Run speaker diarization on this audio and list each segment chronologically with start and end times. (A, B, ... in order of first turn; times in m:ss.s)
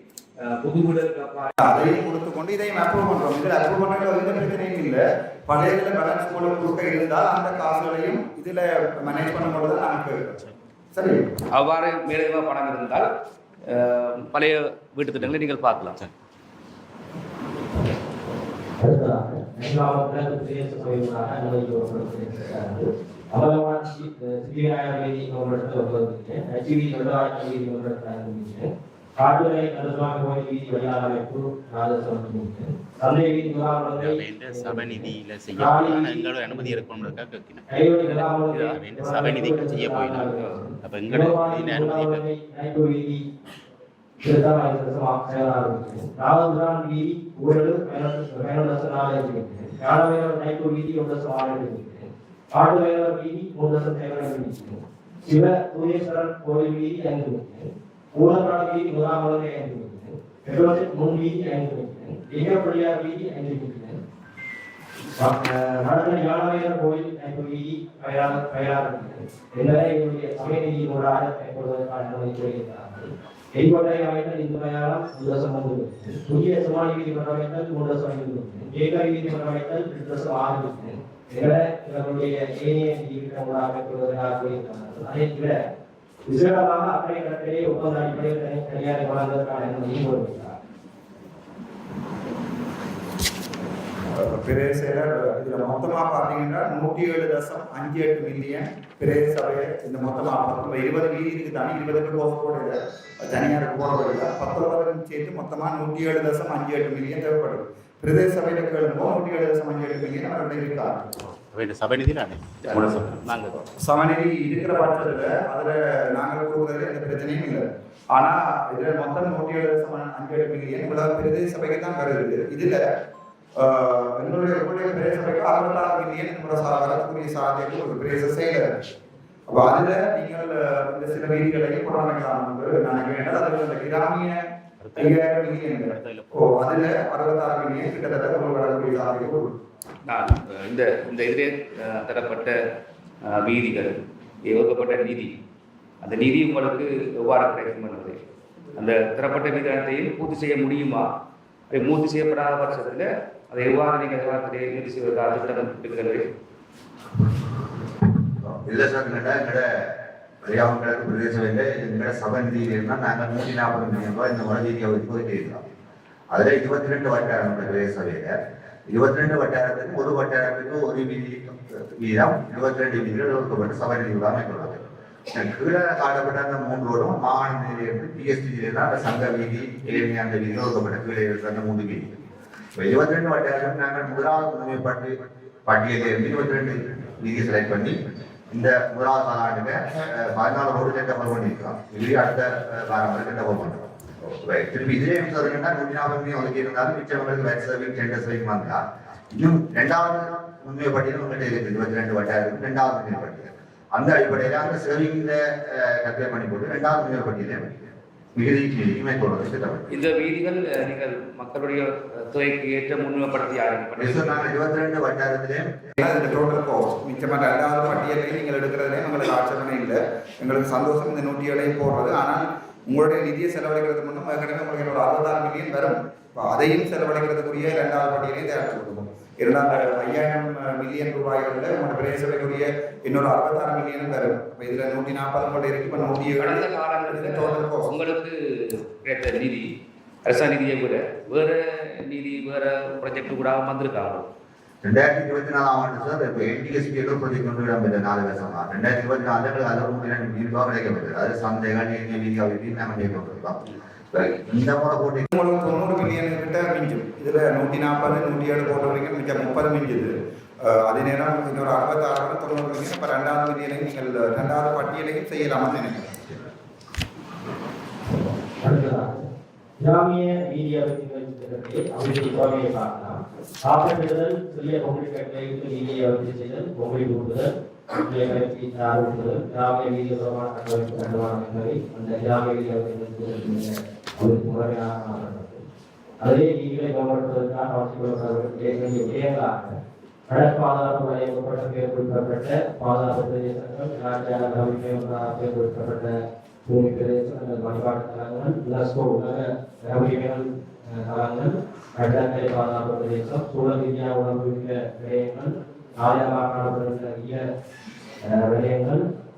0:00.4-0:01.9 A
0:01.6-0:11.2 B
0:11.5-0:13.1 A
0:13.7-0:16.0 A
0:18.8-0:36.8 C
0:33.9-0:40.3 D
0:37.7-0:43.3 C
0:38.1-0:38.8 A
0:40.3-0:40.7 A
0:40.8-0:42.2 D
0:44.2-1:04.0 C
1:05.2-1:25.6 C
1:26.3-1:30.6 C
1:34.1-1:51.0 B
1:51.2-1:53.4 D
1:52.6-1:53.6 A
1:53.8-2:02.8 B
2:03.6-2:08.7 B
2:09.5-2:14.4 B
2:14.8-2:16.4 D
2:15.0-2:19.5 B
2:20.0-2:22.6 A
2:23.2-2:25.3 A
2:26.0-2:28.2 A
2:28.8-2:31.1 A
2:31.7-2:36.2 A
2:38.4-2:39.6 E
2:40.4-2:45.6 E
2:46.3-2:48.3 E
2:48.9-2:54.8 E
2:55.4-3:02.2 E
3:02.8-3:05.1 E
3:05.6-3:07.9 E
3:08.5-3:18.8 E
3:19.3-3:29.9 E
3:29.9-3:34.5 A
3:34.0-3:35.7 E
3:36.0-3:57.9 B
3:56.4-3:59.7 A
4:00.2-4:04.3 A
4:04.8-4:13.6 E
4:14.1-4:15.3 E
4:15.3-4:26.4 B
4:28.6-4:29.3 C
4:29.8-4:45.6 C
4:46.2-4:49.8 C
4:50.3-5:07.4 C
5:08.2-5:09.0 C